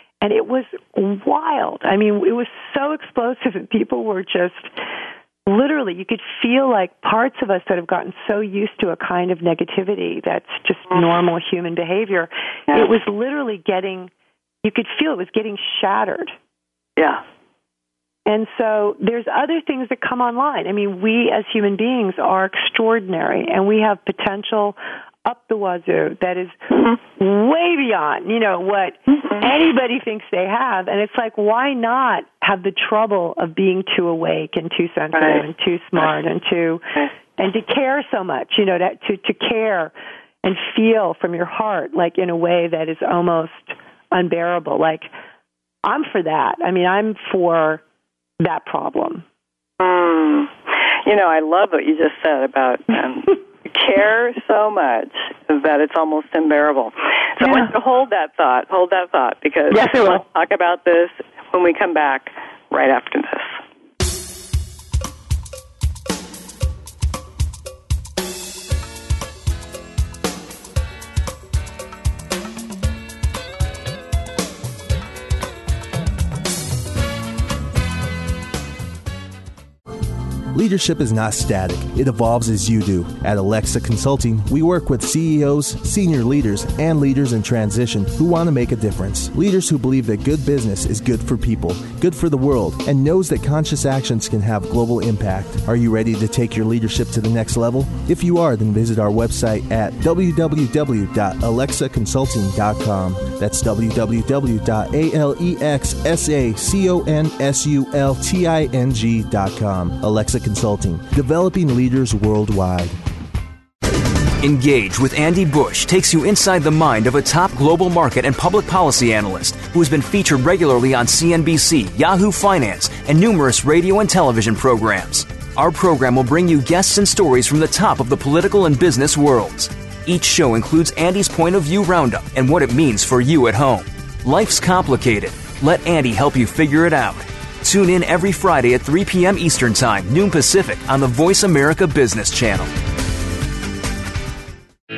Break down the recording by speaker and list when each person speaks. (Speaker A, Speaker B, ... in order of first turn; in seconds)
Speaker A: 0.2-4.7, 5.5-14.1, 14.6-16.3, 18.3-26.6, 27.1-36.9, 37.4-39.9, 40.4-45.1, 45.8-47.8, 48.4-49.2, 57.4-57.7, 59.7-60.2
Speaker B: 35.1-35.5, 49.8-63.6
Speaker C: 80.5-113.0
Speaker D: 114.4-142.7